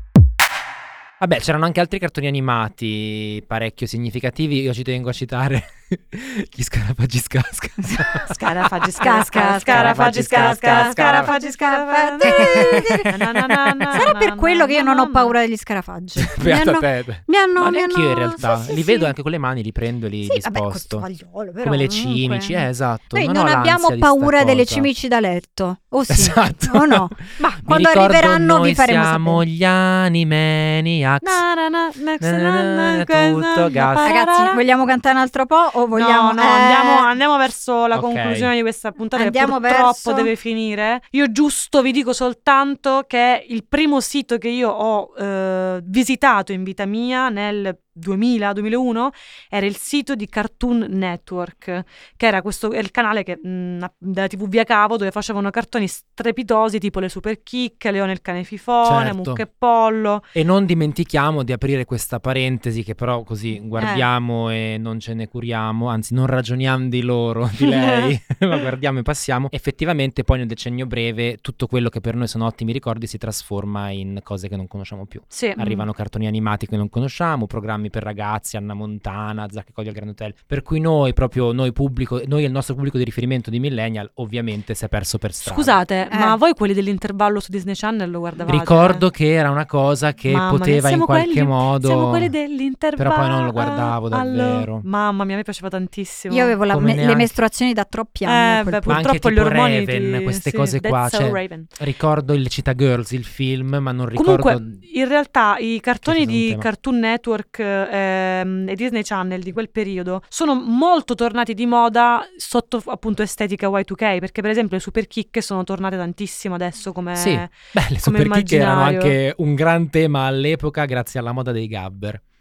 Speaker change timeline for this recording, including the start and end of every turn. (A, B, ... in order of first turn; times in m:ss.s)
0:01.2-0:08.6 A
0:08.3-0:15.3 B
0:09.0-0:13.2 C
0:09.4-0:11.3 A
0:12.2-0:14.1 A
0:13.9-0:19.1 C
0:16.2-0:21.0 A
0:20.2-0:29.4 C
0:21.6-0:24.9 A
0:26.1-0:31.4 A
0:31.2-0:34.6 B
0:32.2-0:34.2 A
0:34.0-0:37.1 C
0:35.9-1:00.2 B
0:37.9-0:38.5 A
0:39.1-0:40.3 C
0:58.8-0:59.4 A
1:00.3-1:25.8 A
1:03.8-1:04.0 C
1:07.8-1:08.1 B
1:15.3-1:15.8 B
1:25.4-1:29.0 B
1:26.1-1:26.4 C
1:28.5-1:32.3 A
1:30.3-1:36.6 B
1:33.0-1:34.8 A
1:36.3-1:39.0 C
1:36.7-1:37.3 A
1:38.2-1:41.7 B
1:38.9-1:44.8 A
1:44.2-1:59.2 B
1:46.0-1:46.7 A
1:57.1-2:02.2 A